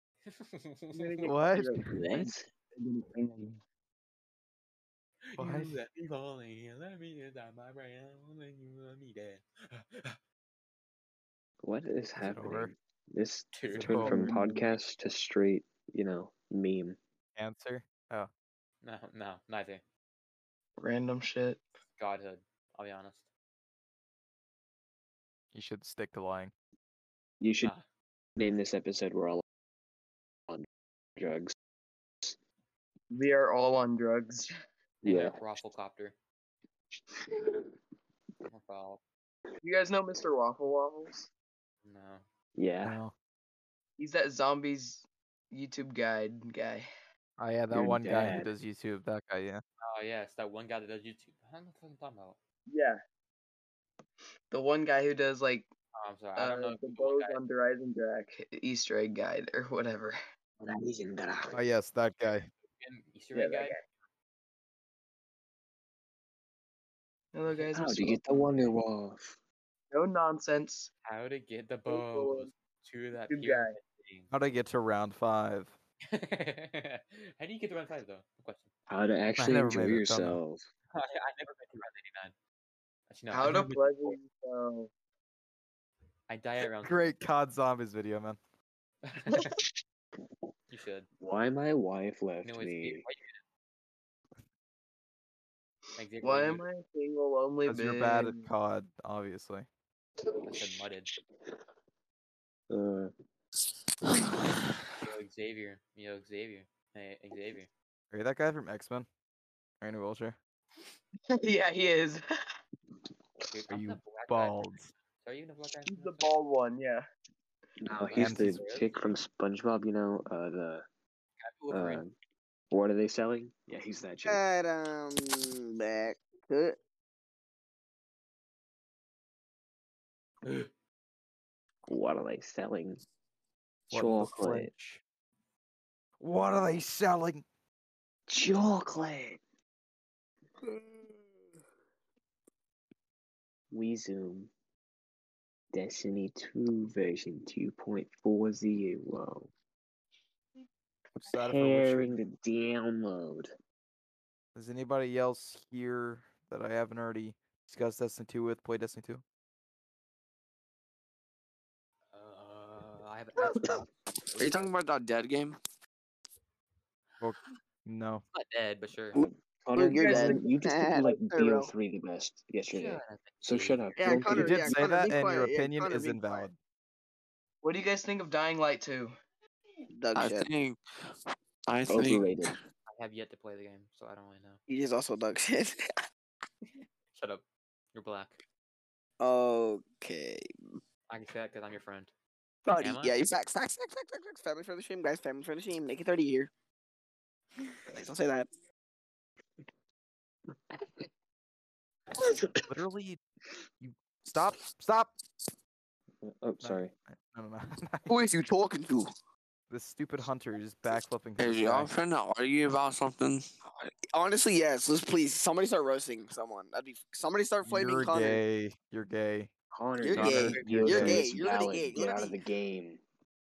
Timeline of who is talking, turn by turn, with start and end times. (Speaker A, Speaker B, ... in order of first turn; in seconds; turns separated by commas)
Speaker A: 0.2-1.3, Speaker B: 0.9-3.6, Speaker C: 1.2-1.9, Speaker D: 1.9-2.5, Speaker A: 5.2-10.2, Speaker C: 5.4-5.8, Speaker D: 11.6-17.0, Speaker C: 12.2-12.7, Speaker A: 13.5-14.1, Speaker C: 13.8-14.3, Speaker B: 14.0-14.7, Speaker C: 17.4-18.3, Speaker A: 18.8-19.8, Speaker B: 20.8-21.6, Speaker A: 22.0-23.3, Speaker C: 25.5-26.5, Speaker D: 27.4-27.7, Speaker D: 28.4-29.4, Speaker D: 31.2-31.5, Speaker B: 33.1-34.5, Speaker D: 35.0-35.4, Speaker A: 35.0-36.1, Speaker A: 38.4-39.0, Speaker B: 39.6-41.3, Speaker A: 41.8-42.2, Speaker D: 42.5-43.0, Speaker C: 42.8-43.1, Speaker B: 44.0-46.9, Speaker C: 47.4-49.6, Speaker D: 47.7-48.5, Speaker A: 49.8-52.4, Speaker B: 52.7-53.0, Speaker B: 54.5-55.7, Speaker A: 55.9-57.4, Speaker B: 56.4-60.1, Speaker D: 60.6-61.6, Speaker C: 61.5-62.5, Speaker A: 62.6-63.8, Speaker B: 63.3-63.8, Speaker B: 67.3-68.5, Speaker D: 67.5-69.4, Speaker B: 69.9-70.9, Speaker A: 71.0-74.3, Speaker B: 71.9-72.5, Speaker B: 73.3-73.7, Speaker C: 74.3-75.7, Speaker A: 76.1-78.7, Speaker D: 78.9-80.7, Speaker C: 79.4-80.4, Speaker A: 80.9-82.3, Speaker A: 83.1-83.9, Speaker B: 83.3-84.9, Speaker A: 86.3-87.1, Speaker C: 86.8-88.4, Speaker A: 89.0-89.6, Speaker A: 90.7-91.1, Speaker D: 91.2-93.0, Speaker A: 92.4-93.4, Speaker A: 96.0-96.6, Speaker B: 96.2-98.5, Speaker C: 97.7-99.7, Speaker A: 100.4-101.1, Speaker D: 102.7-103.1, Speaker A: 105.0-107.7, Speaker C: 108.1-109.1, Speaker C: 109.8-110.4, Speaker B: 111.3-112.2, Speaker A: 113.5-116.3, Speaker C: 113.7-114.9, Speaker B: 115.8-117.0, Speaker D: 117.8-120.8, Speaker A: 118.0-119.1, Speaker C: 118.1-118.7, Speaker A: 121.4-122.0, Speaker D: 121.7-122.1, Speaker D: 122.7-124.4, Speaker E: 124.2-126.8, Speaker A: 130.4-130.7, Speaker D: 131.9-133.0, Speaker D: 133.9-134.7, Speaker C: 133.9-135.0, Speaker C: 136.2-137.4, Speaker D: 138.3-139.4, Speaker D: 143.7-144.5, Speaker D: 145.7-149.5, Speaker C: 151.2-152.2, Speaker D: 151.2-153.5, Speaker C: 154.5-159.2, Speaker A: 162.1-164.7, Speaker D: 163.5-163.8, Speaker F: 164.4-165.6, Speaker C: 167.2-168.2, Speaker A: 168.3-169.2, Speaker D: 169.1-174.8, Speaker E: 169.7-171.7, Speaker B: 169.8-170.5, Speaker A: 172.7-173.9, Speaker E: 174.0-176.5, Speaker C: 174.2-176.6, Speaker B: 177.6-179.1, Speaker E: 179.9-180.5, Speaker F: 180.1-181.2, Speaker F: 181.7-182.5, Speaker D: 181.9-182.5, Speaker A: 182.9-184.6, Speaker E: 184.7-185.8, Speaker A: 187.1-188.4, Speaker E: 189.2-190.5, Speaker A: 191.1-192.1, Speaker E: 192.7-196.5, Speaker A: 192.8-193.2, Speaker E: 197.9-198.5, Speaker D: 202.2-202.6, Speaker C: 202.7-203.2, Speaker C: 203.8-205.1, Speaker D: 206.2-206.9, Speaker C: 206.6-208.2, Speaker E: 208.1-209.1, Speaker C: 209.7-211.9, Speaker F: 211.4-213.4, Speaker E: 213.8-218.4, Speaker C: 217.6-219.5, Speaker D: 219.7-223.0, Speaker E: 220.0-222.4, Speaker C: 220.1-221.3